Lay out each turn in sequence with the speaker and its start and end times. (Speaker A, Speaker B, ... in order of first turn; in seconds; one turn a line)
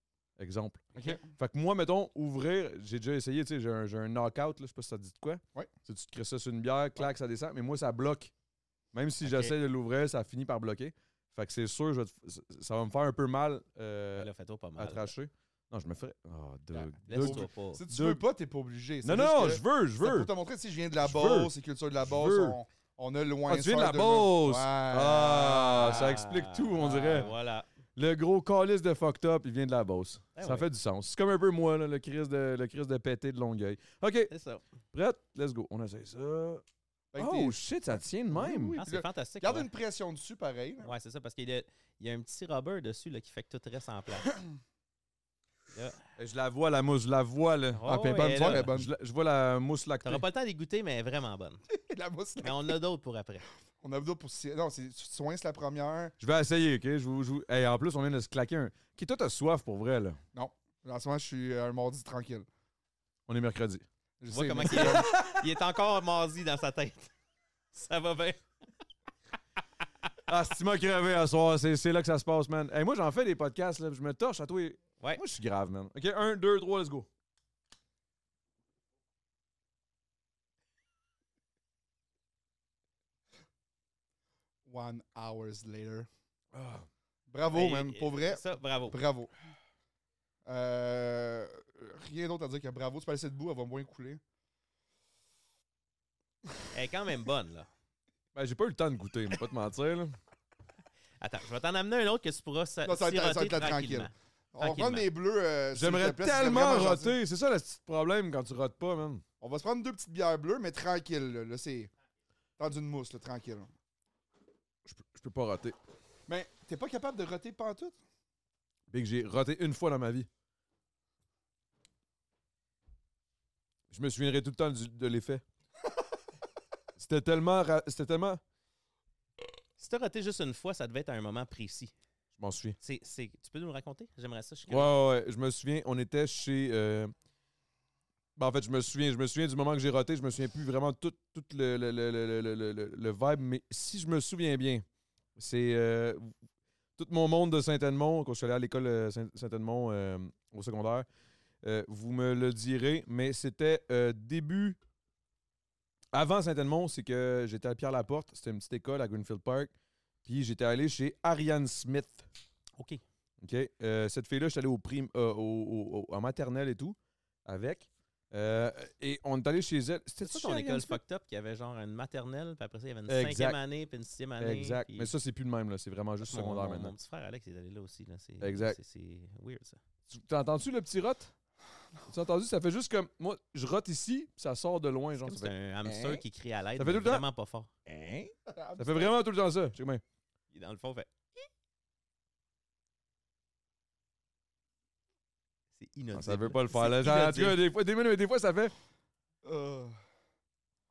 Speaker A: 0.4-8.3
Speaker B: 1.0-1.2
Speaker A: 8.9-18.2
Speaker C: 9.2-9.5
Speaker C: 14.2-15.1
Speaker C: 16.7-17.8
Speaker B: 17.1-26.1
Speaker A: 19.0-20.3
Speaker A: 21.0-21.5
Speaker A: 22.0-22.6
Speaker A: 23.5-27.3
Speaker C: 25.7-27.7
Speaker A: 27.9-34.3
Speaker C: 30.3-30.6
Speaker C: 34.3-34.6
Speaker A: 34.9-36.6
Speaker B: 37.1-40.9
Speaker A: 37.2-38.8
Speaker C: 38.8-39.7
Speaker C: 40.8-44.3
Speaker A: 46.2-50.2
Speaker C: 47.7-48.7
Speaker B: 47.9-48.9
Speaker C: 50.0-51.6
Speaker B: 51.7-52.7
Speaker C: 52.4-53.5
Speaker B: 53.8-56.1
Speaker A: 56.2-60.2
Speaker B: 60.3-62.5
Speaker A: 63.3-63.8
Speaker B: 64.2-65.1
Speaker C: 64.3-67.1
Speaker A: 64.7-65.4
Speaker C: 67.7-68.4
Speaker A: 70.3-77.1
Speaker B: 84.7-86.1
Speaker A: 86.5-86.8
Speaker B: 87.3-89.3
Speaker C: 87.5-89.0
Speaker B: 90.4-94.2
Speaker C: 96.7-97.7
Speaker A: 98.3-100.2
Speaker C: 101.2-105.1
Speaker B: 102.8-107.2
Speaker A: 105.7-109.2
Speaker B: 109.4-111.9
Speaker B: 112.6-113.7
Speaker A: 114.8-115.8
Speaker B: 116.3-118.0
Speaker A: 118.9-120.3
Speaker A: 123.9-125.4
Speaker A: 127.0-128.4
Speaker C: 129.8-131.9
Speaker A: 132.3-132.8
Speaker C: 132.8-134.9
Speaker A: 134.7-137.1
Speaker A: 138.3-144.8
Speaker A: 145.3-146.3
Speaker A: 147.0-151.1
Speaker A: 151.6-154.8
Speaker A: 156.1-159.7
Speaker A: 160.2-162.2
Speaker C: 162.8-163.0
Speaker A: 163.4-171.0
Speaker C: 170.2-175.1
Speaker A: 173.1-173.6
Speaker A: 174.4-176.9
Speaker C: 176.2-179.8
Speaker A: 178.4-178.8
Speaker A: 180.1-181.3
Speaker A: 182.1-186.2
Speaker C: 185.2-187.7
Speaker A: 186.8-187.2
Speaker A: 187.8-190.0
Speaker B: 188.5-189.1
Speaker C: 190.5-191.1
Speaker C: 195.7-197.6
Speaker A: 196.1-198.7
Speaker B: 199.4-200.0